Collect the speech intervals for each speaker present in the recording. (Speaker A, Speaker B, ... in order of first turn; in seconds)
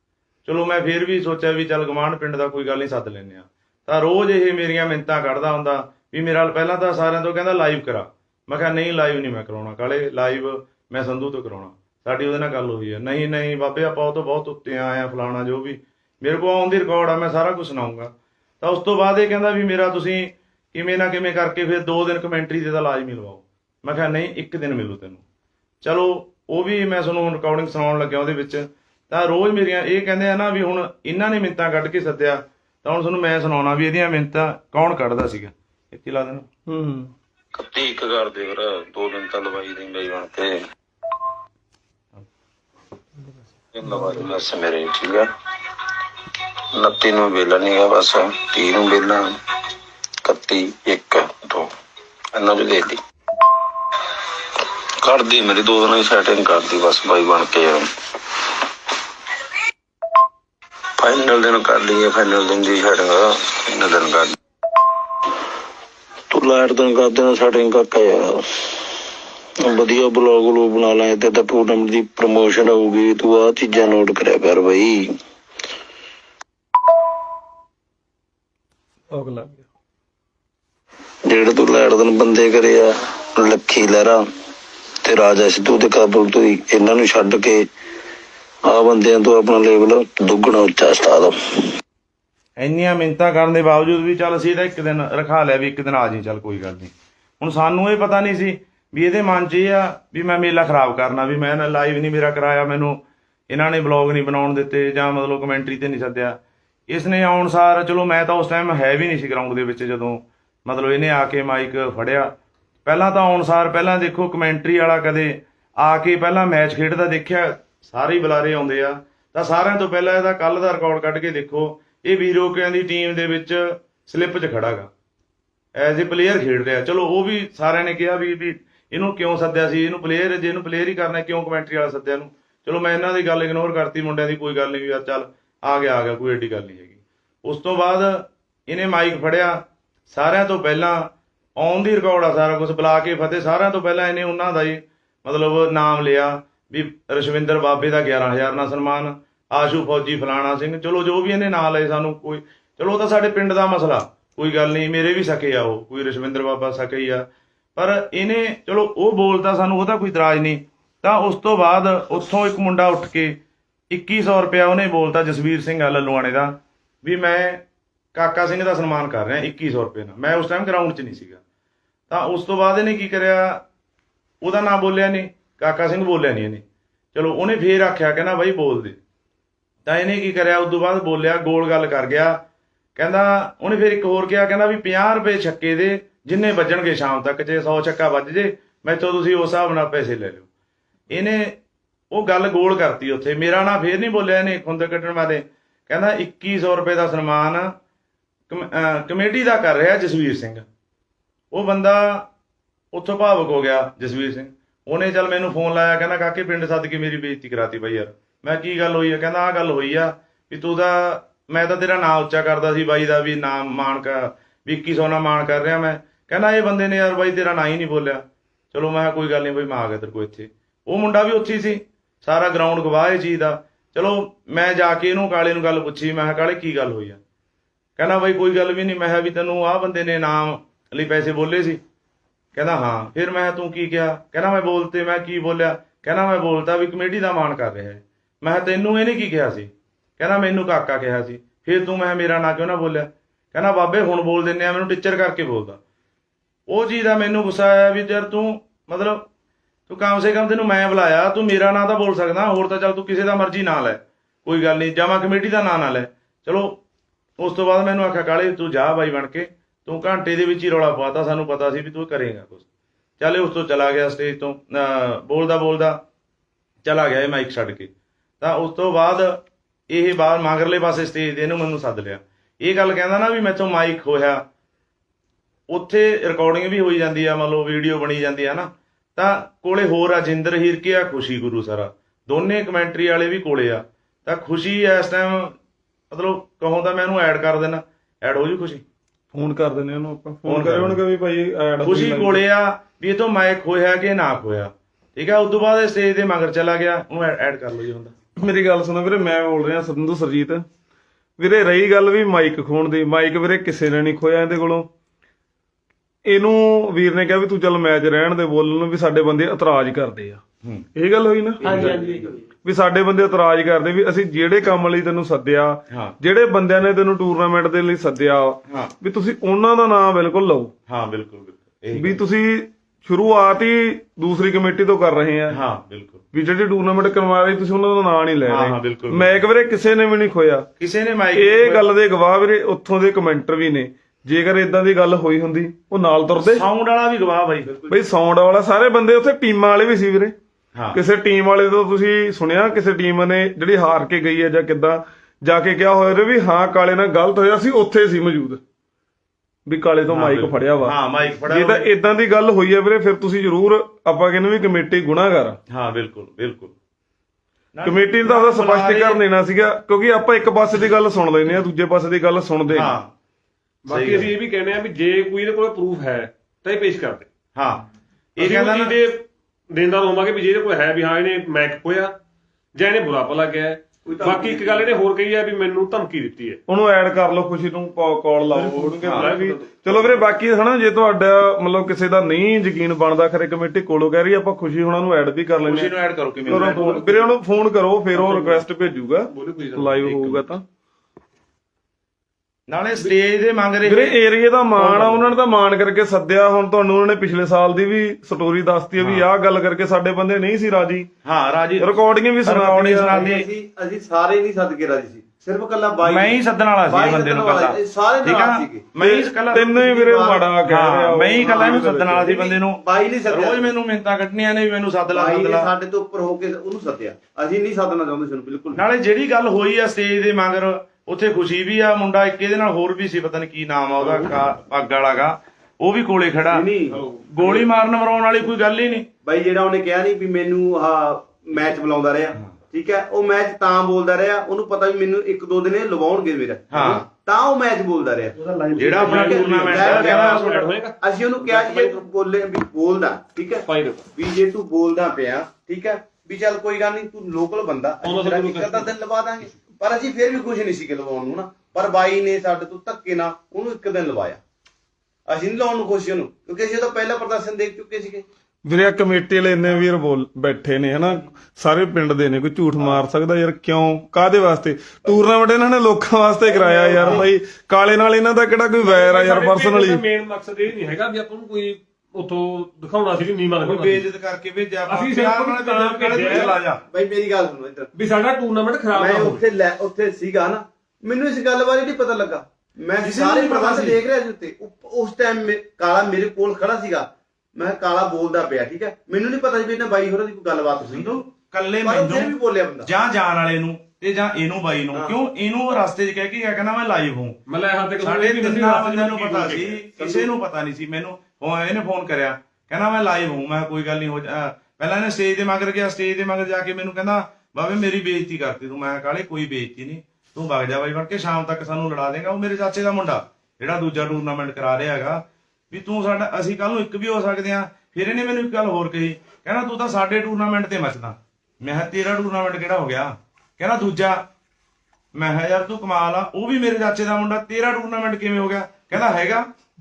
Speaker A: 0.5-25.2, 25.8-36.5, 92.6-106.4, 106.9-112.3, 112.8-124.9, 125.8-139.6, 140.1-163.4, 163.9-167.6, 168.2-171.4, 172.1-173.6, 174.4-179.0, 179.9-182.4, 182.9-190.5, 191.1-191.6, 192.1-197.7, 198.5-200.7, 201.5-202.2, 202.9-227.2, 228.0-231.8, 232.5-245.8, 246.7-249.3, 249.9-256.8, 257.4-262.6, 263.2-266.0, 266.9-269.4, 269.9-274.4, 275.7-285.6, 286.1-288.8, 290.4-291.0, 291.8-298.1, 318.7-318.9, 320.9-322.2, 325.5-326.2, 328.5-329.4, 330.8-331.9, 336.4-337.7, 350.1-351.9, 355.7-356.8, 357.7-359.2, 362.7-363.1, 363.9-364.3, 367.6-367.8, 368.4-369.0, 379.0-379.3, 385.6-387.0, 392.7-394.1, 394.8-395.3, 399.0-399.3, 401.2-403.5, 406.1-409.7, 410.7-415.7, 418.8-429.1, 436.7-437.0, 438.8-440.6, 473.6-476.8, 483.0-484.0, 490.8-497.4, 498.0-524.2, 525.1-529.5
Speaker B: 36.7-37.1, 79.1-79.6, 289.3-292.4, 298.4-300.6, 301.4-304.9, 306.2-310.4, 310.9-312.1, 312.6-320.7, 321.9-325.6, 326.3-330.7, 331.4-336.6, 337.9-340.4, 340.9-348.6, 349.7-350.9, 351.5-355.6, 357.8-362.9, 376.7-385.9, 386.5-390.6, 393.8-401.1, 401.8-403.1, 409.0-411.7, 458.6-470.0
Speaker C: 37.5-40.5, 43.7-45.3, 46.8-49.3, 50.2-51.7, 52.4-53.0, 55.0-57.9, 61.0-64.3, 66.3-68.4, 69.7-75.1, 81.3-84.2, 85.0-87.6, 88.7-91.4
Speaker D: 311.6-312.4, 337.7-338.0, 374.1-375.0, 403.1-408.9, 409.5-410.5, 411.4-413.7, 415.1-418.8, 426.5-427.0, 429.2-454.4, 455.3-458.2, 466.4-467.3, 476.2-477.9, 478.9-491.2, 491.8-492.9
Speaker E: 363.9-367.3, 368.4-372.1, 372.8-376.6, 378.5-380.2, 386.5-387.3, 388.1-388.6, 389.3-390.5, 411.6-412.2, 424.0-424.4, 427.2-427.6, 438.4-442.0, 443.6-444.1, 448.0-448.9, 468.8-474.1, 474.9-476.6, 477.9-479.4, 497.5-499.9